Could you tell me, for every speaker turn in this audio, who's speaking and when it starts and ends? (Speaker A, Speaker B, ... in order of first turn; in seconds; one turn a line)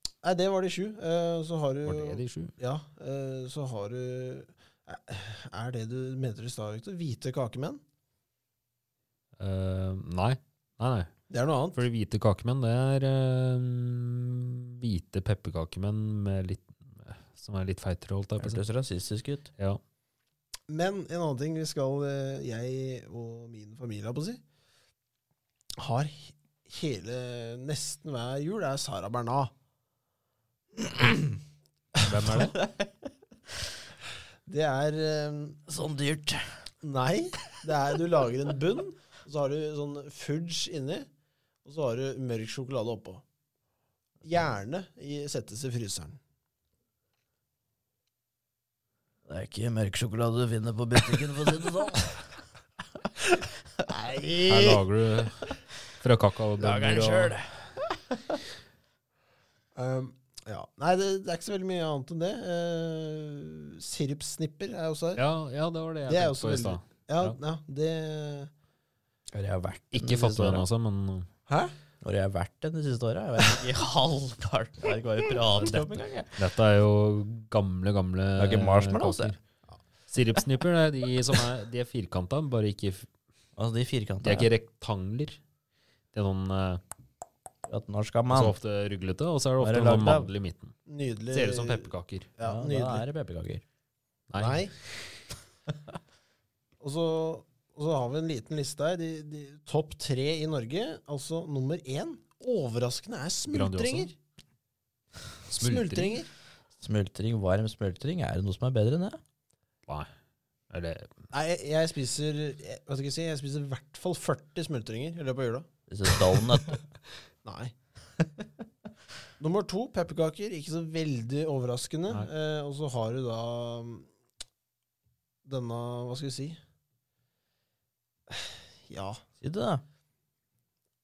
Speaker A: 0.2-7.8
Speaker B: 1.9-2.5
Speaker B: 9.4-11.1
Speaker A: 11.3-11.8
Speaker B: 11.8-18.6
Speaker C: 18.4-19.5
Speaker A: 20.7-24.4
Speaker A: 25.8-29.5
Speaker C: 30.9-31.3
Speaker B: 32.0-32.6
Speaker C: 32.4-32.9
Speaker A: 34.5-35.6
Speaker C: 35.7-36.7
Speaker A: 36.8-41.1
Speaker A: 41.6-43.2
Speaker A: 44.2-46.2
Speaker C: 49.3-52.3
Speaker A: 53.9-54.8
Speaker B: 54.5-57.4
Speaker C: 56.6-57.9
Speaker A: 59.8-65.2
Speaker B: 65.2-67.4
Speaker A: 66.0-68.5
Speaker C: 69.3-70.7
Speaker B: 69.9-71.3
Speaker A: 71.5-71.8
Speaker C: 72.0-76.4
Speaker B: 75.6-79.4
Speaker C: 78.4-79.4
Speaker B: 80.1-83.1
Speaker C: 83.6-84.5
Speaker B: 84.2-85.4
Speaker B: 86.1-86.8
Speaker C: 87.7-88.6
Speaker B: 88.3-90.7
Speaker C: 89.6-90.3
Speaker A: 90.9-93.1
Speaker B: 91.3-92.3
Speaker C: 92.4-93.6
Speaker B: 94.3-94.7
Speaker A: 94.4-94.7
Speaker A: 96.8-104.2
Speaker B: 103.5-104.1
Speaker B: 105.5-106.2
Speaker A: 105.6-106.3
Speaker C: 106.8-109.2
Speaker B: 110.7-111.1
Speaker A: 111.3-115.7
Speaker C: 115.9-116.8
Speaker A: 117.5-117.7
Speaker A: 119.4-124.1
Speaker A: 125.5-126.6
Speaker A: 128.9-129.2
Speaker C: 129.4-129.8